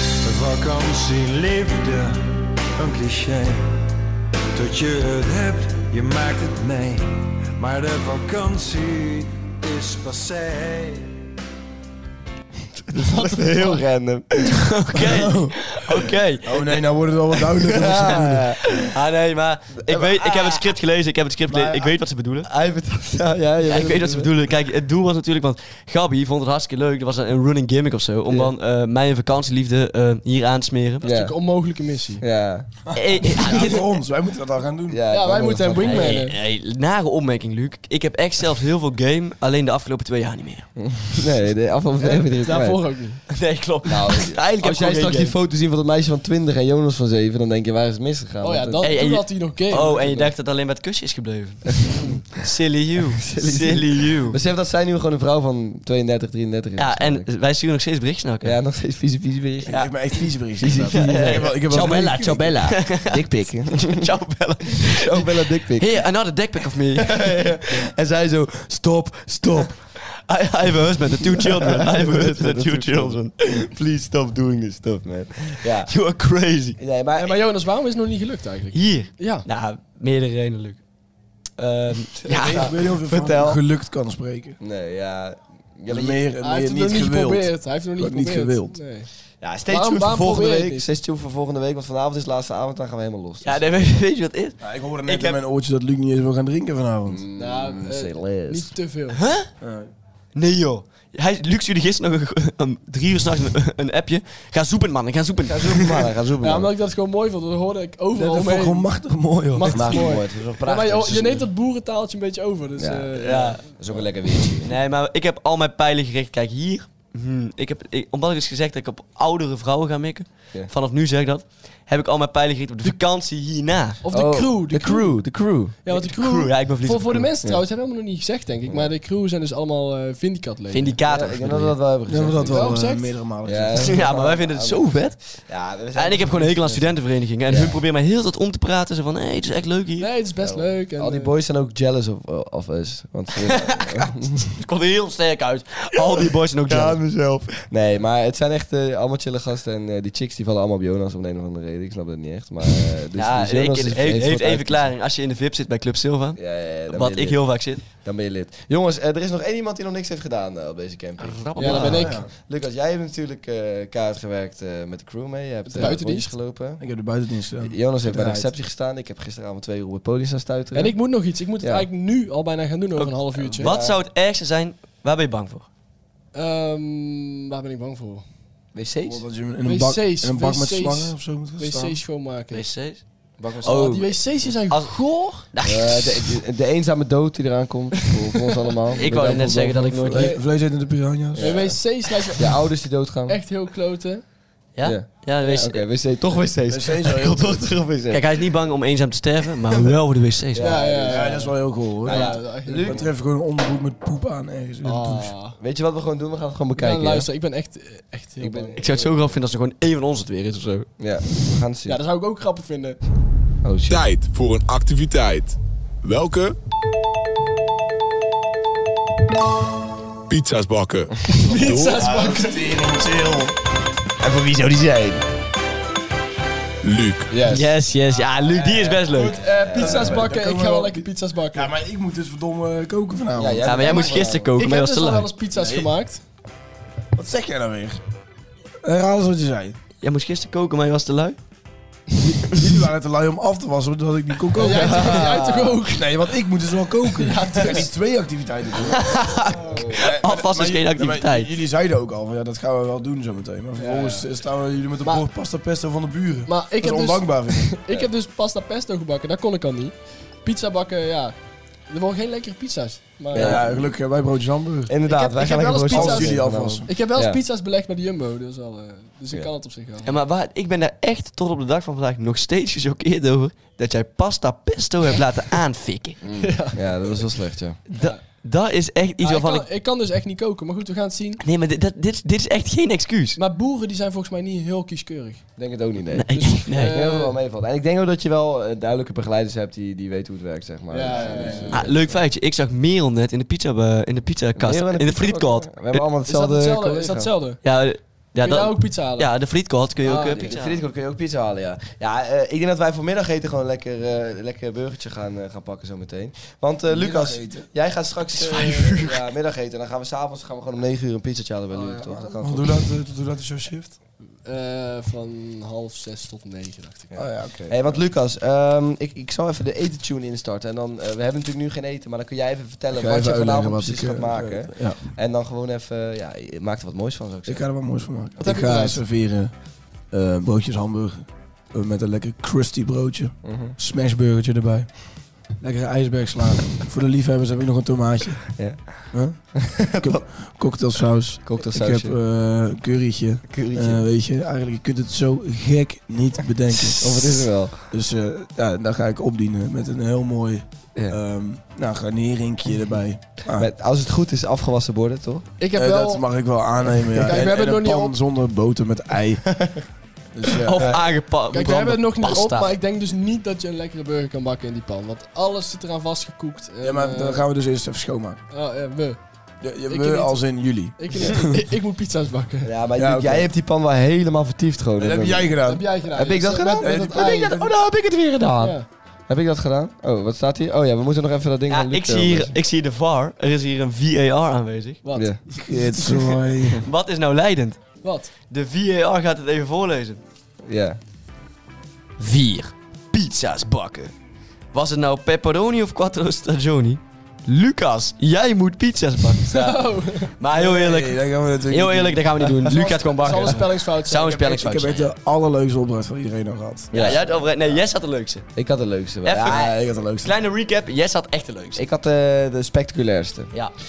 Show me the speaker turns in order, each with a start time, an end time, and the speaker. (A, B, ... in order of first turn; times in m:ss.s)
0:00.2-0:03.9 A
0:04.6-0:11.1 A
0:12.9-0:14.6 B
0:13.0-0:13.8 C
0:14.7-0:16.8 D
0:15.0-0:15.7 E
0:16.4-0:18.5 E
0:17.7-0:18.6 B
0:18.0-0:22.5 D
0:19.9-0:20.6 B
0:22.4-0:24.3 B
0:23.7-0:31.0 D
0:28.3-0:28.5 B
0:31.0-0:31.4 B
0:31.0-0:32.2 C
0:32.2-0:32.7 B
0:33.0-0:33.9 D
0:33.3-0:35.0 E
0:34.9-0:36.2 B
0:35.1-0:36.4 C
0:35.8-0:40.7 D
0:40.8-0:42.8 B
0:42.0-0:43.2 C
0:43.3-0:45.4 D
0:43.8-0:49.0 B
0:48.4-0:50.3 C
0:48.8-0:54.4 D
0:51.8-0:52.1 B
0:53.3-0:57.3 B
0:56.8-0:58.6 D
0:58.4-0:59.8 B
0:59.7-1:02.4 E
0:59.7-1:07.5 D
1:00.6-1:04.0 B
1:04.8-1:06.0 B
1:07.0-1:09.8 B
1:10.2-1:13.7 D
1:11.4-1:15.9 B
1:15.6-1:16.8 D
1:16.8-1:17.4 B
1:17.2-1:19.5 C
1:18.7-1:20.8 D
1:21.6-1:22.8 D
1:22.3-1:24.6 E
1:22.4-1:23.6 B
1:24.6-1:26.2 B
1:25.9-1:28.8 E
1:26.4-1:29.1 C
1:29.4-1:34.0 B
1:29.7-1:30.9 C
1:33.4-1:35.4 D
1:34.6-1:37.2 E
1:37.1-1:38.7 B
1:37.4-1:39.2 C
1:39.1-1:39.5 D
1:39.6-1:39.9 E
1:40.4-1:46.1 D
1:45.5-1:46.7 B
1:46.4-1:49.0 C
1:48.1-1:50.1 E
1:49.5-1:53.6 C
1:49.7-1:51.5 B
1:52.8-1:54.8 B
1:53.2-1:53.6 D
1:54.6-2:04.0 D
2:04.0-2:05.2 C
2:04.1-2:05.8 B
2:05.8-2:11.0 C
2:05.9-2:07.3 D
2:10.7-2:11.8 D
2:11.1-2:12.8 B
2:12.1-2:14.0 E
2:12.5-2:13.2 C
2:13.4-2:16.9 B
2:13.8-2:15.4 D
2:15.9-2:20.1 D
2:17.5-2:17.8 B
2:20.0-2:21.3 C
2:20.4-2:24.5 B
2:23.4-2:27.0 D
2:26.7-2:34.9 B
2:33.2-2:37.8 D
2:36.4-2:46.8 B
2:41.2-2:42.1 D
2:41.6-2:42.2 C
2:41.8-2:42.3 E
2:45.7-2:46.3 C
2:46.8-2:48.5 E
2:47.6-2:51.0 B
2:50.7-2:53.7 C
2:51.6-2:51.9 B
2:53.0-2:55.7 D
2:53.6-2:54.0 B
2:56.3-2:58.2 C
2:58.7-2:59.2 B
2:59.0-3:02.0 E
2:59.6-3:02.7 C
3:02.5-3:03.0 D
3:03.4-3:03.8 B
3:03.6-3:04.9 D
3:03.6-3:05.5 C
3:05.5-3:06.4 D
3:05.6-3:10.3 B
3:09.0-3:10.4 D
3:09.9-3:11.7 E
3:11.4-3:11.8 B
3:11.4-3:12.6 C
3:12.4-3:13.4 B
3:13.3-3:14.2 C
3:14.8-3:15.8 D
3:14.8-3:18.2 B
3:16.7-3:17.7 E
3:18.1-3:20.7 D
3:20.5-3:21.4 B
3:20.6-3:23.1 C
3:20.8-3:25.3 E
3:22.0-3:23.1 B
3:24.8-3:25.6 C
3:25.6-3:27.3 B
3:26.8-3:28.8 C
3:28.4-3:29.3 B
3:28.8-3:30.9 D
3:31.0-3:32.0 B
3:31.9-3:33.0 C
3:33.6-3:34.0 B
3:33.9-3:36.6 F
3:40.3-3:42.1 F
3:41.3-3:42.8 C
3:41.5-3:43.6 E
3:44.2-3:45.2 B
3:46.8-3:47.3 F
3:47.3-3:47.7 B
3:47.5-3:49.4 D
3:48.6-3:49.0 E
3:49.1-3:51.7 C
3:49.5-3:50.3 B
3:49.7-3:53.7 E
3:53.4-3:54.5 B
3:53.6-3:55.3 D
3:53.8-3:56.2 C
3:55.5-3:55.9 E
3:57.2-3:58.0 E
3:58.8-3:59.8 E
4:00.0-4:01.4 D
4:02.4-4:09.2 E
4:04.5-4:06.1 C
4:04.7-4:05.8 B
4:07.1-4:07.9 C
4:09.0-4:11.5 D
4:09.7-4:10.0 B
4:10.0-4:17.8 E
4:13.8-4:14.3 C
4:16.5-4:21.4 C
4:21.9-4:23.8 C
4:23.3-4:23.7 B
4:23.4-4:25.0 E
4:24.9-4:27.4 B
4:25.0-4:30.1 C
4:25.9-4:26.9 E
4:30.0-4:36.2 D
4:36.2-4:37.8 B
4:36.4-4:36.9 C
4:37.9-4:39.7 D
4:39.2-4:41.4 C
4:41.4-4:43.4 D
4:43.4-4:45.4 C
4:45.6-4:52.2 B
4:46.1-4:47.0 D
4:46.4-4:47.4 C
4:50.9-4:51.9 C
4:51.1-4:51.7 E
4:51.7-4:56.0 D
4:54.6-4:57.3 B
4:56.3-4:57.6 C
4:57.6-5:00.8 D
4:58.4-4:59.3 C
5:00.0-5:00.5 C
5:00.4-5:12.8 B
5:06.9-5:07.7 E
5:08.4-5:09.2 D
5:08.5-5:08.9 C
5:11.7-5:14.0 E
5:14.4-5:17.2 C
5:17.2-5:18.0 E
5:17.2-5:27.6 B
5:22.9-5:25.0 E
5:27.5-5:29.5 E
5:28.4-5:29.0 C
5:30.1-5:35.0 E
5:33.4-5:33.8 B
5:35.6-5:38.6 E
5:38.6-5:40.2 B
5:39.1-5:47.3 E
5:41.4-5:42.2 B
5:43.5-5:44.0 B
5:47.0-5:47.8 B
5:47.9-5:53.7 E
5:53.6-5:55.5 B
5:55.6-5:56.3 C
5:55.8-5:59.8 E
5:57.1-5:58.2 C
5:59.5-5:59.8 B
6:00.3-6:00.9 E
6:00.6-6:02.8 D
6:01.5-6:07.4 C
6:06.8-6:08.4 E
6:08.5-6:09.2 C
6:09.6-6:11.6 E
6:09.9-6:12.7 C
6:12.6-6:22.5 B
6:13.0-6:13.5 E
6:15.0-6:16.0 E
6:15.6-6:17.7 C
6:16.8-6:17.7 E
6:18.6-6:18.8 C
6:21.7-6:25.0 D
6:25.0-6:26.3 C
6:25.1-6:25.4 B
6:25.5-6:26.9 E
6:26.8-6:30.2 D
6:28.0-6:28.3 C
6:30.7-6:31.0 B
6:32.2-6:34.1 D
6:34.7-6:45.1 D
6:39.5-6:40.3 C
6:40.5-6:43.5 E
6:42.7-6:44.3 C
6:44.2-6:47.1 E
6:46.9-6:47.2 B
6:46.9-6:48.5 D
6:48.6-6:49.7 B
6:49.2-6:51.8 D
6:49.4-6:50.4 E
6:51.8-6:53.5 B